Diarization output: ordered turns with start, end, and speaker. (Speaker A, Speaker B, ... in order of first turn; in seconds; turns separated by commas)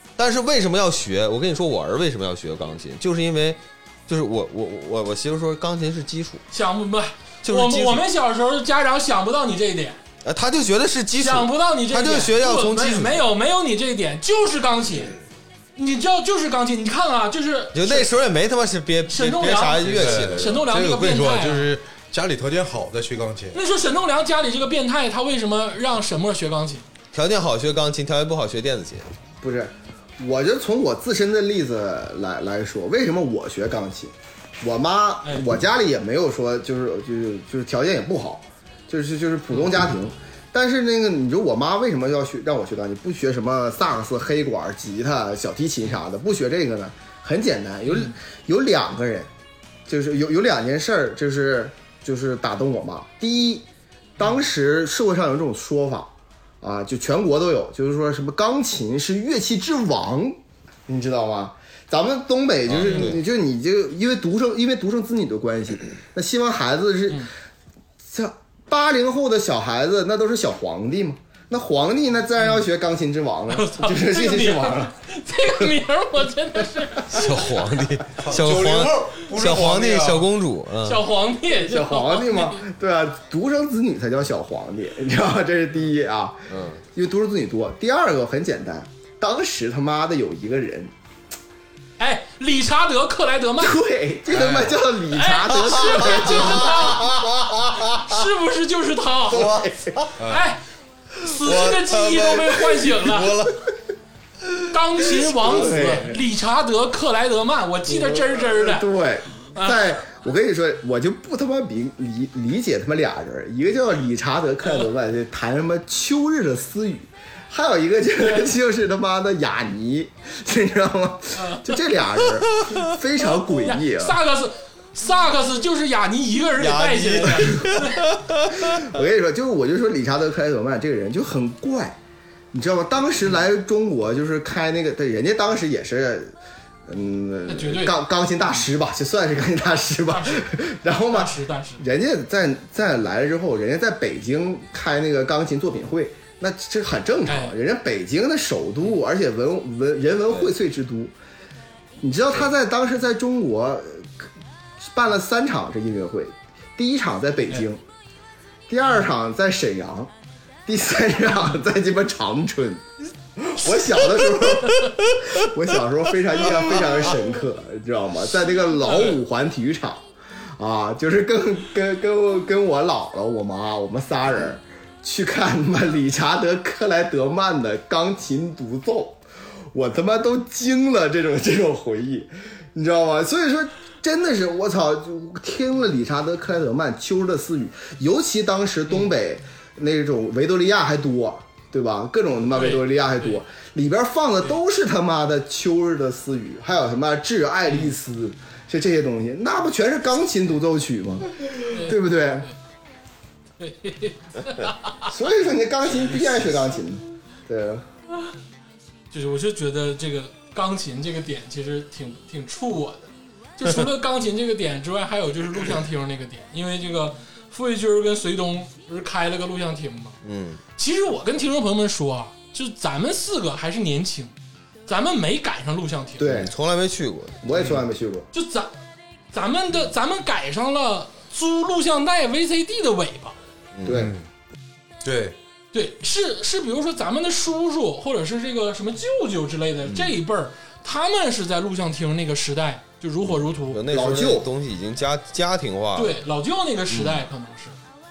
Speaker A: 0.2-6.4, Speaker B: 6.5-10.0, Speaker A: 7.4-8.0, Speaker A: 10.2-13.2, Speaker B: 11.2-15.1, Speaker B: 15.8-18.1, Speaker A: 17.7-20.6, Speaker B: 19.1-21.7, Speaker C: 19.8-23.6, Speaker B: 23.5-26.9, Speaker A: 27.1-29.1, Speaker D: 29.4-49.3, Speaker B: 47.9-48.1, Speaker D: 49.9-53.6, Speaker D: 54.2-67.3, Speaker A: 62.7-63.2, Speaker B: 62.8-63.1, Speaker D: 68.0-74.9, Speaker B: 73.5-77.7, Speaker A: 77.1-81.0, Speaker C: 78.2-80.3, Speaker B: 80.8-82.6, Speaker D: 81.6-90.9, Speaker A: 86.5-86.8, Speaker B: 92.0-93.8, Speaker D: 93.6-97.2, Speaker C: 94.3-94.8, Speaker B: 95.1-97.2, Speaker A: 95.9-98.0, Speaker B: 97.8-99.5, Speaker D: 99.3-100.0, Speaker A: 99.3-100.1, Speaker C: 100.2-100.5, Speaker B: 100.3-100.6, Speaker B: 101.2-103.4, Speaker C: 101.5-103.5, Speaker B: 104.7-108.9, Speaker D: 105.3-106.2, Speaker D: 107.9-124.2, Speaker B: 109.5-110.0, Speaker B: 121.3-121.8, Speaker A: 122.3-122.8, Speaker B: 123.4-128.1, Speaker A: 126.6-128.9, Speaker D: 128.5-132.0, Speaker D: 132.5-136.3, Speaker D: 136.8-151.1, Speaker B: 137.5-138.0, Speaker B: 140.1-140.5, Speaker B: 141.1-141.8, Speaker B: 147.3-147.6, Speaker D: 152.0-154.3, Speaker D: 154.8-157.8, Speaker D: 158.7-160.1, Speaker D: 160.7-170.1, Speaker B: 168.8-169.2, Speaker D: 170.6-202.5, Speaker B: 192.5-193.3, Speaker B: 197.7-197.9, Speaker B: 201.7-202.5, Speaker B: 203.6-205.2, Speaker D: 205.1-207.8, Speaker B: 209.1-220.2, Speaker A: 220.2-220.6, Speaker B: 220.8-224.3, Speaker B: 224.9-226.3, Speaker D: 226.2-226.5, Speaker A: 226.2-227.4, Speaker D: 227.4-228.3, Speaker B: 228.3-228.7, Speaker B: 229.3-233.3, Speaker A: 233.7-234.1, Speaker D: 233.8-234.1, Speaker C: 233.9-234.3, Speaker C: 235.0-235.3, Speaker B: 235.7-243.8, Speaker A: 239.8-240.1, Speaker A: 243.7-246.2, Speaker D: 243.9-244.5, Speaker B: 245.9-247.8, Speaker A: 246.9-247.2